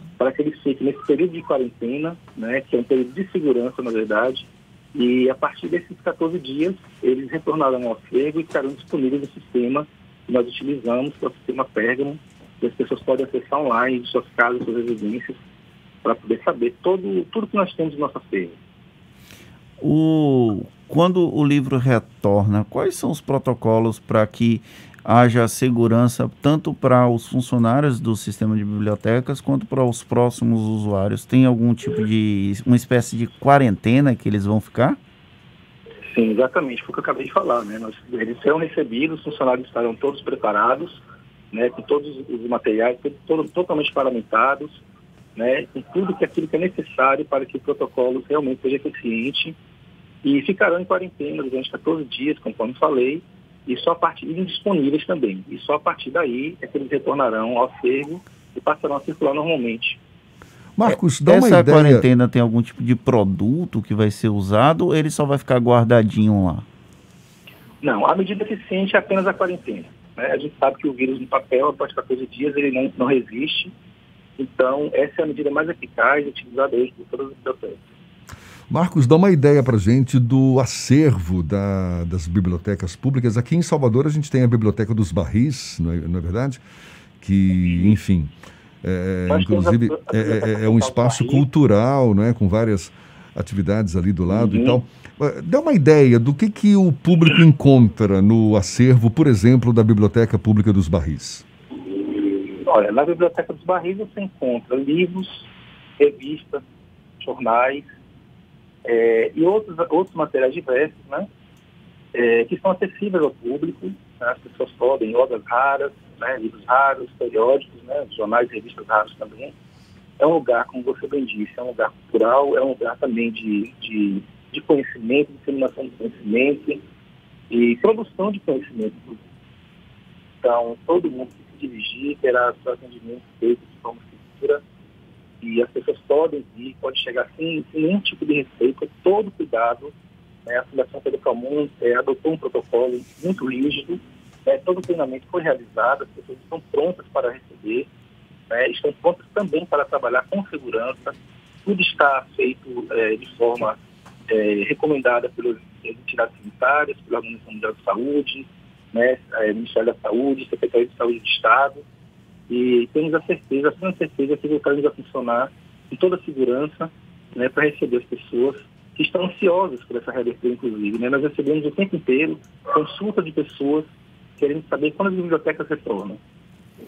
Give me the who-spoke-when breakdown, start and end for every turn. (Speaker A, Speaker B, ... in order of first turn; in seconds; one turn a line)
Speaker A: 0.2-15.4
Speaker A: 16.0-18.6
Speaker B: 19.8-35.0
Speaker A: 36.1-44.8
Speaker A: 45.4-49.6
Speaker A: 50.2-60.0
Speaker C: 60.8-62.1
Speaker B: 60.9-66.7
Speaker A: 67.8-73.7
Speaker A: 74.4-77.8
Speaker C: 78.7-86.6
Speaker C: 87.2-88.3
Speaker C: 88.8-101.5
Speaker A: 89.3-91.5
Speaker A: 94.3-94.8
Speaker A: 102.6-105.5
Speaker A: 106.0-106.6
Speaker A: 107.2-107.8
Speaker A: 108.8-111.3
Speaker A: 112.1-119.5
Speaker A: 120.2-126.8
Speaker A: 127.5-129.2
Speaker A: 130.4-134.6
Speaker A: 135.4-139.9
Speaker A: 140.5-147.9
Speaker A: 148.5-161.8
Speaker A: 162.5-176.2